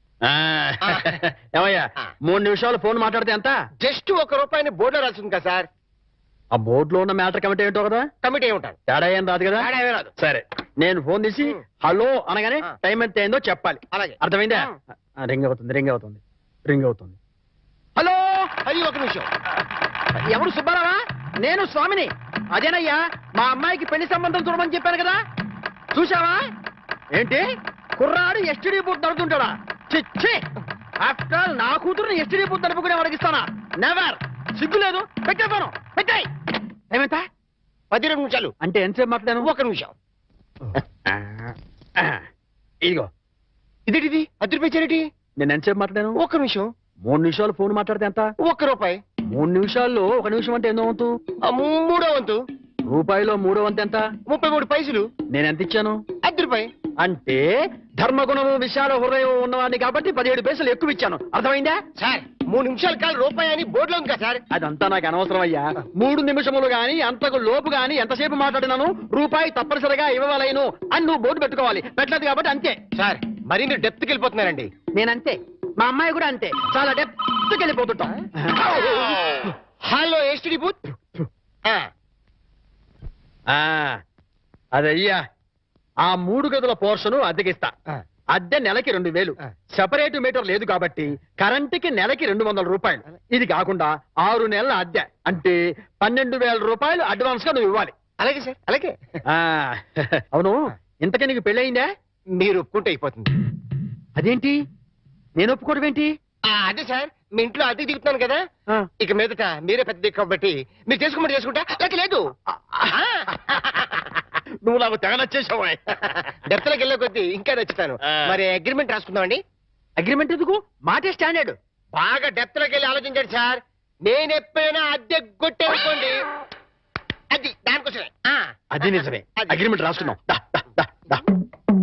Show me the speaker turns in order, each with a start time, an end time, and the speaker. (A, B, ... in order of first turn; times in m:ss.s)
0:00.2-0:03.6 A
0:03.8-0:05.7 B
0:06.6-0:08.1 A
0:08.2-0:08.8 B
0:08.9-0:14.7 A
0:09.6-0:10.1 B
0:13.9-0:14.8 B
0:15.2-0:17.2 A
0:18.0-0:18.4 A
0:18.6-0:19.3 B
0:20.2-0:25.2 A
0:26.0-0:26.4 A
0:27.2-0:27.4 A
0:28.0-0:30.4 A
0:31.0-0:36.3 A
0:36.9-0:37.2 A
0:37.9-0:38.5 B
0:38.6-0:39.5 A
0:39.4-0:39.9 B
0:41.0-0:42.2 A
0:43.9-0:45.1 B
0:45.4-0:46.2 A
0:46.2-0:46.7 B
0:47.0-0:48.3 A
0:48.4-0:49.0 B
0:49.3-0:51.1 A
0:51.5-0:52.4 B
0:52.9-0:54.1 A
0:54.2-0:55.1 B
0:55.3-0:56.0 A
0:56.2-0:56.7 B
0:57.0-1:01.8 A
1:02.0-1:04.4 B
1:04.5-1:12.8 A
1:13.0-1:14.7 B
1:15.0-1:19.2 A
1:18.8-1:19.0 B
1:19.9-1:20.8 B
1:23.5-1:24.0 A
1:24.8-1:25.2 A
1:26.0-1:27.7 A
1:28.4-1:37.9 A
1:38.2-1:39.0 B
1:39.3-1:41.9 A
1:42.4-1:43.3 B
1:44.2-1:44.6 A
1:45.4-1:46.1 A
1:46.5-1:48.4 B
1:49.0-1:52.2 B
1:52.6-1:53.6 A
1:52.9-1:53.9 B
1:54.6-1:56.2 A
1:56.3-1:59.4 B
1:58.0-1:58.4 A
2:00.0-2:01.6 A
2:02.0-2:06.2 B
2:07.3-2:10.1 B
2:08.8-2:11.2 A